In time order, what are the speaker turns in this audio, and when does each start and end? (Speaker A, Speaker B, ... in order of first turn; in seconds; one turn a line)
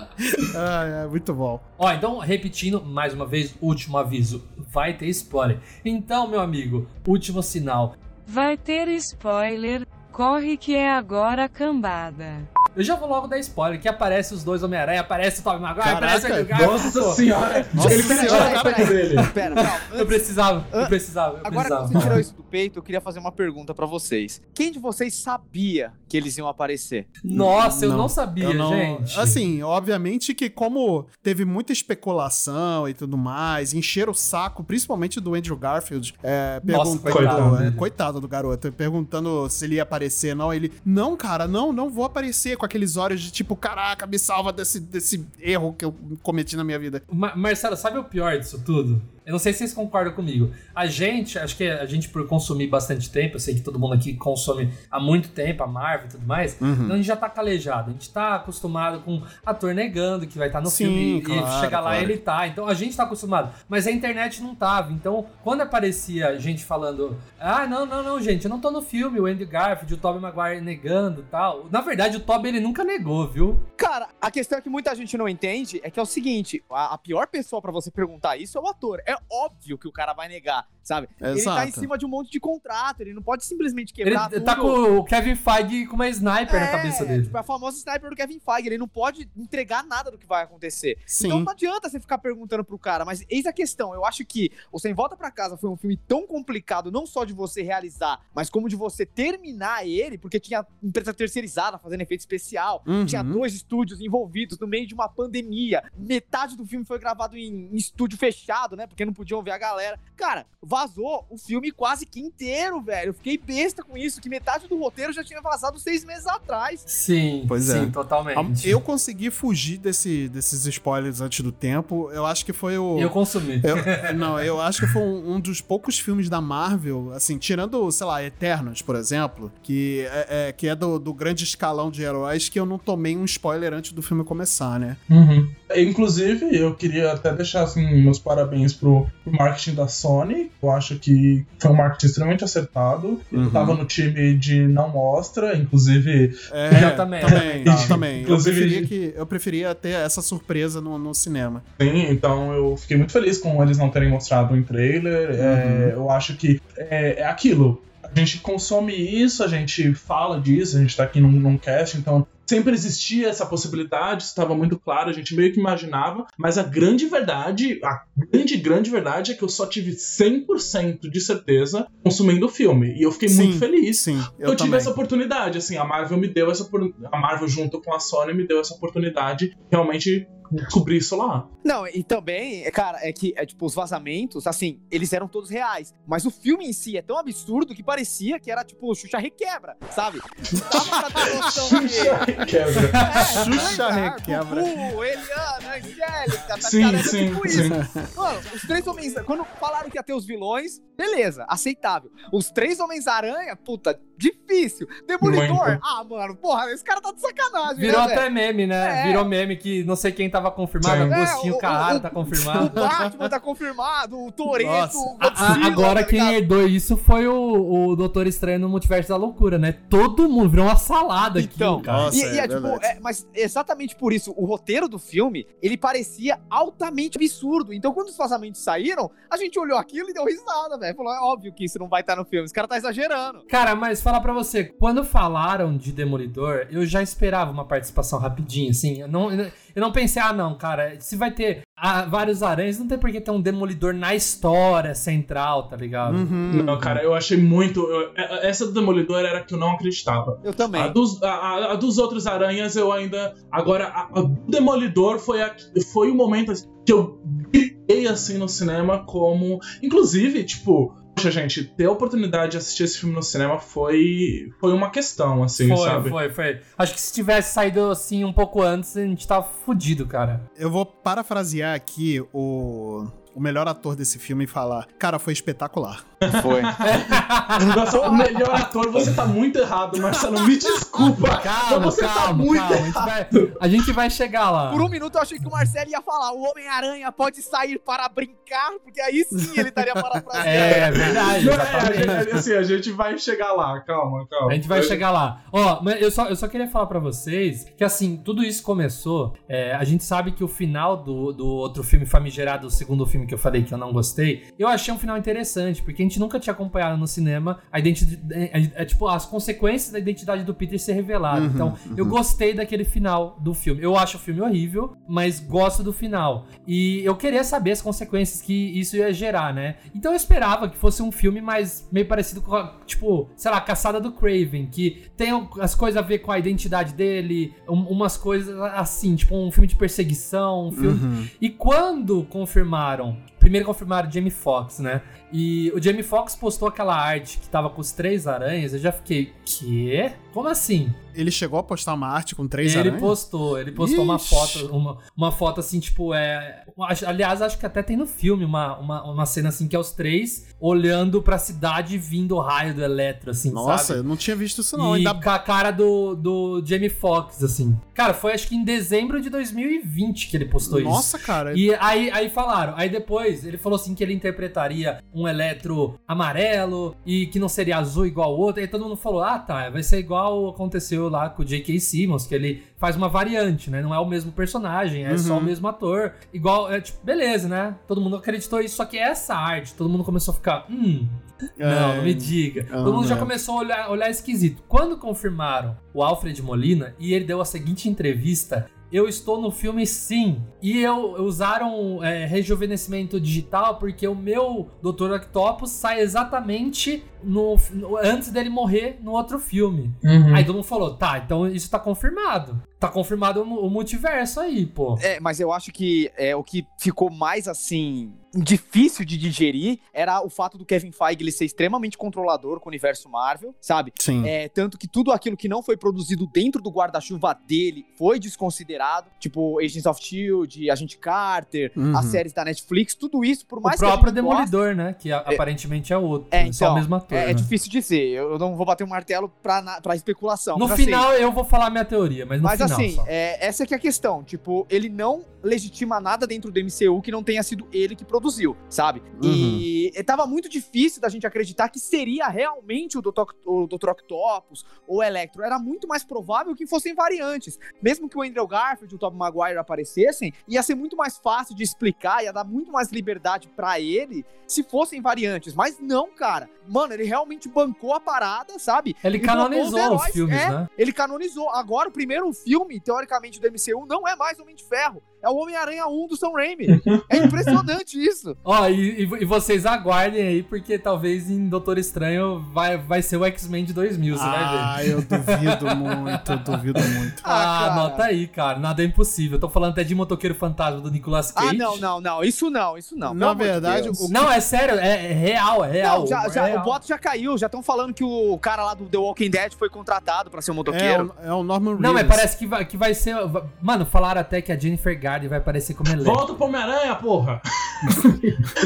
Speaker A: 0.3-1.6
Speaker B: 1.8-7.9
Speaker C: 8.2-12.5
Speaker B: 12.7-17.2
Speaker A: 15.8-16.5
Speaker D: 16.5-19.3
Speaker A: 17.7-19.1
Speaker E: 17.8-27.1
Speaker B: 19.9-22.1
Speaker A: 21.9-22.2
Speaker B: 27.2-29.4
Speaker A: 27.3-47.0
Speaker B: 36.7-37.9
Speaker D: 37.1-37.6
Speaker B: 47.1-73.6
Speaker A: 56.6-57.0
Speaker A: 60.6-62.2
Speaker E: 73.8-84.8
Speaker A: 81.2-81.9
Speaker B: 84.0-87.3
Speaker E: 86.5-116.9
Speaker A: 91.1-91.5
Speaker A: 102.9-103.4
Speaker B: 116.9-118.8
Speaker A: 117.5-135.0
Speaker B: 123.0-124.2
Speaker D: 135.1-148.9
Speaker A: 143.3-143.8
Speaker A: 146.5-151.6
Speaker B: 146.7-148.0
Speaker D: 151.8-181.5
Speaker A: 155.4-155.9
Speaker A: 173.3-174.9
Speaker E: 181.6-192.2
Speaker D: 190.6-193.7
Speaker A: 190.6-192.0
Speaker E: 193.0-209.2
Speaker A: 193.1-194.7
Speaker D: 196.6-197.8
Speaker A: 197.5-198.1
Speaker D: 205.2-205.8
Speaker B: 207.8-212.9
Speaker D: 210.8-211.1
Speaker E: 211.1-216.4
Speaker A: 212.5-213.3
Speaker A: 214.6-215.8
Speaker B: 215.2-222.1
Speaker E: 221.3-233.4
Speaker A: 221.8-222.9
Speaker B: 233.5-246.3
Speaker A: 246.1-247.0
Speaker D: 246.5-266.1
Speaker E: 250.4-250.9
Speaker B: 265.6-270.4
Speaker A: 270.6-276.2
Speaker D: 276.2-283.6
Speaker E: 276.3-276.7
Speaker B: 276.8-277.7
Speaker E: 277.9-278.4
Speaker A: 280.0-281.2
Speaker B: 281.4-284.9
Speaker E: 284.7-291.1
Speaker A: 289.4-292.4
Speaker B: 290.4-292.2
Speaker D: 291.4-295.0
Speaker B: 294.5-341.0
Speaker A: 311.3-312.2
Speaker A: 330.7-331.3
Speaker A: 341.1-343.2
Speaker B: 342.6-354.0
Speaker A: 343.7-344.6
Speaker A: 353.5-355.2
Speaker B: 354.7-405.0
Speaker A: 360.6-361.6
Speaker A: 375.1-375.5
Speaker A: 381.6-383.3
Speaker D: 400.0-400.5
Speaker E: 405.0-424.5
Speaker A: 413.9-414.3
Speaker A: 421.8-422.2
Speaker B: 423.6-427.5
Speaker E: 426.3-431.0
Speaker B: 430.6-433.1
Speaker E: 432.4-468.4
Speaker A: 439.2-439.6
Speaker B: 459.0-460.7
Speaker D: 466.7-467.6
Speaker B: 468.4-476.6
Speaker A: 474.1-477.2
Speaker E: 477.2-478.1
Speaker B: 477.2-481.8
Speaker E: 481.4-484.1
Speaker A: 483.0-484.3
Speaker B: 484.1-486.8
Speaker E: 485.8-491.1
Speaker A: 490.7-492.3
Speaker B: 491.8-496.2
Speaker D: 496.0-498.5